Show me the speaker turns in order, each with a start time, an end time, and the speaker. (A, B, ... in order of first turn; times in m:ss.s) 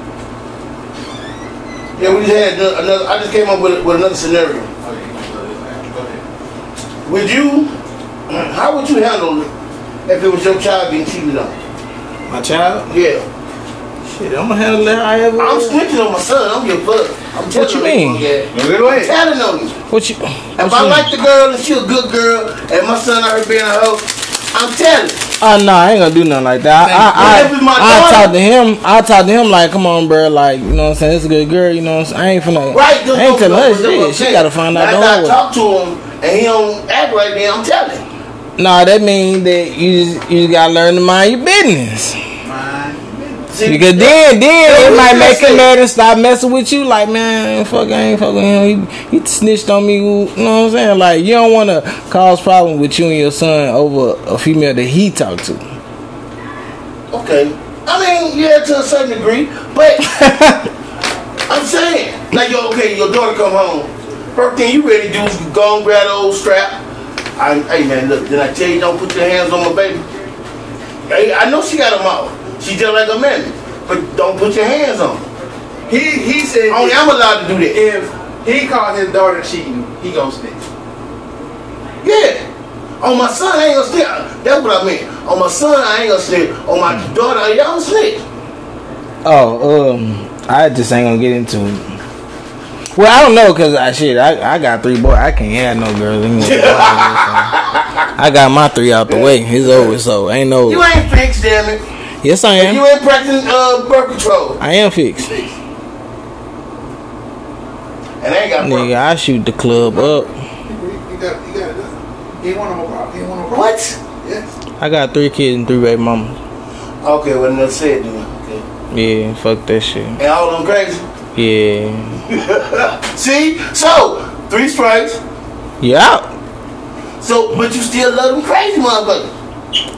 0:02.0-0:02.2 A
0:02.0-0:04.7 B
0:04.8-0:06.2 A
0:07.0-0:07.7 B
0:08.3-0:09.5 B
0:10.1-0:11.6 B
0:12.3-0:12.9 C
0:12.9-0:13.3 B
0:14.0-0:15.8 C
0:15.4-0:19.8 B
0:17.5-0:18.3 C
0:18.5-0:19.1 A
0:19.9-0:21.1 C
0:20.6-0:25.3 B
0:25.4-0:35.4 C
0:26.7-0:27.4 A
0:27.1-0:28.3 B
0:32.7-0:38.0 B
0:38.6-0:42.2 C
0:42.4-0:43.5 A
0:43.5-0:45.7 B
0:43.6-0:55.6 C
0:57.1-1:00.1 B
1:00.0-1:00.7 C
1:01.5-1:06.8 B
1:07.4-1:10.0 B
1:11.1-1:15.3 B
1:15.9-1:17.0 A
1:16.7-1:17.8 B
1:17.7-1:20.7 A
1:22.0-1:22.4 B
1:23.0-1:28.2 B
1:29.2-1:32.0 C
1:32.9-1:37.6 C
1:36.4-1:38.0 B
1:38.2-1:40.8 C
1:39.1-1:39.3 B
1:40.6-1:41.8 B
1:42.2-1:42.8 C
1:42.6-1:44.6 B
1:44.6-1:45.4 C
1:45.2-1:45.5 A
1:48.2-1:48.9 B
1:48.6-1:50.3 C
1:49.7-1:54.5 A
1:53.5-1:54.0 B
1:54.8-1:56.4 C
1:57.0-1:58.6 B
1:58.9-2:00.2 C
2:00.2-2:01.0 B
2:01.4-2:02.2 C
2:02.3-2:05.2 B
2:05.8-2:06.3 C
2:07.2-2:09.3 B